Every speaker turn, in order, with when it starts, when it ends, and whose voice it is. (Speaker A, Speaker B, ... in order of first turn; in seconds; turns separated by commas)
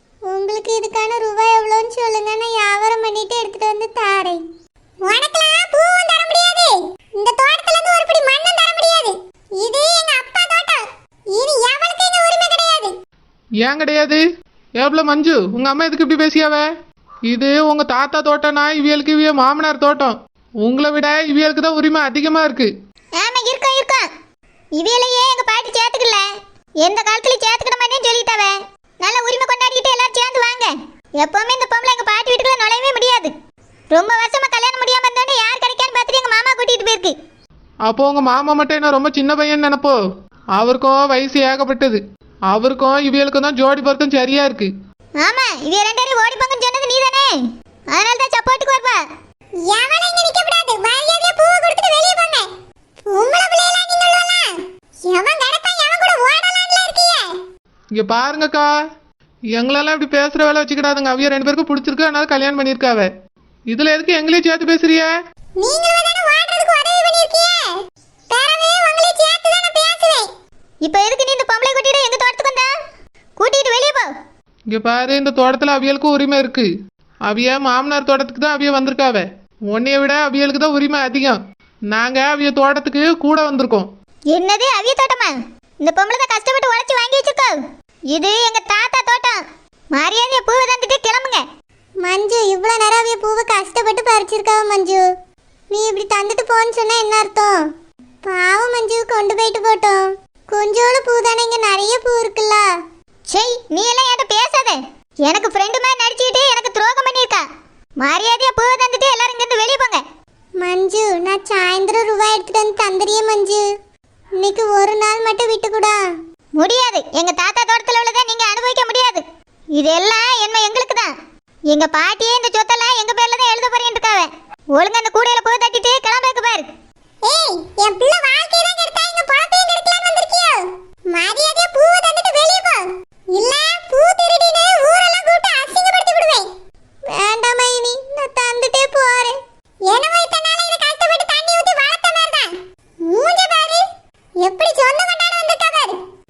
Speaker A: 0.3-4.4, Speaker A: 5.0-12.9, Speaker B: 13.6-14.2, Speaker B: 14.8-16.6, Speaker B: 17.3-22.7, Speaker C: 23.2-24.0, Speaker C: 24.8-26.2, Speaker C: 26.8-33.3, Speaker C: 33.9-37.1, Speaker B: 37.9-40.0, Speaker B: 40.6-42.0, Speaker B: 42.5-44.7, Speaker C: 45.2-47.3, Speaker C: 47.9-49.0, Speaker A: 49.7-52.5, Speaker A: 53.0-57.4, Speaker B: 58.0-58.7, Speaker B: 59.5-63.1, Speaker B: 63.7-65.1, Speaker A: 65.6-67.8, Speaker A: 68.3-70.3, Speaker C: 70.8-72.7, Speaker C: 73.4-74.1, Speaker B: 74.7-76.7, Speaker B: 77.2-81.4, Speaker B: 81.9-83.9, Speaker C: 84.3-87.5, Speaker C: 88.1-89.4, Speaker C: 89.9-91.4, Speaker A: 92.0-95.0, Speaker A: 95.7-97.5, Speaker A: 98.2-102.6, Speaker C: 103.3-107.4, Speaker C: 108.0-110.0, Speaker A: 110.6-113.7, Speaker A: 114.4-116.0, Speaker C: 116.6-119.2, Speaker C: 119.8-121.1, Speaker C: 121.7-126.7, Speaker A: 127.2-136.5, Speaker A: 137.1-139.3, Speaker A: 139.9-143.8, Speaker A: 144.4-146.0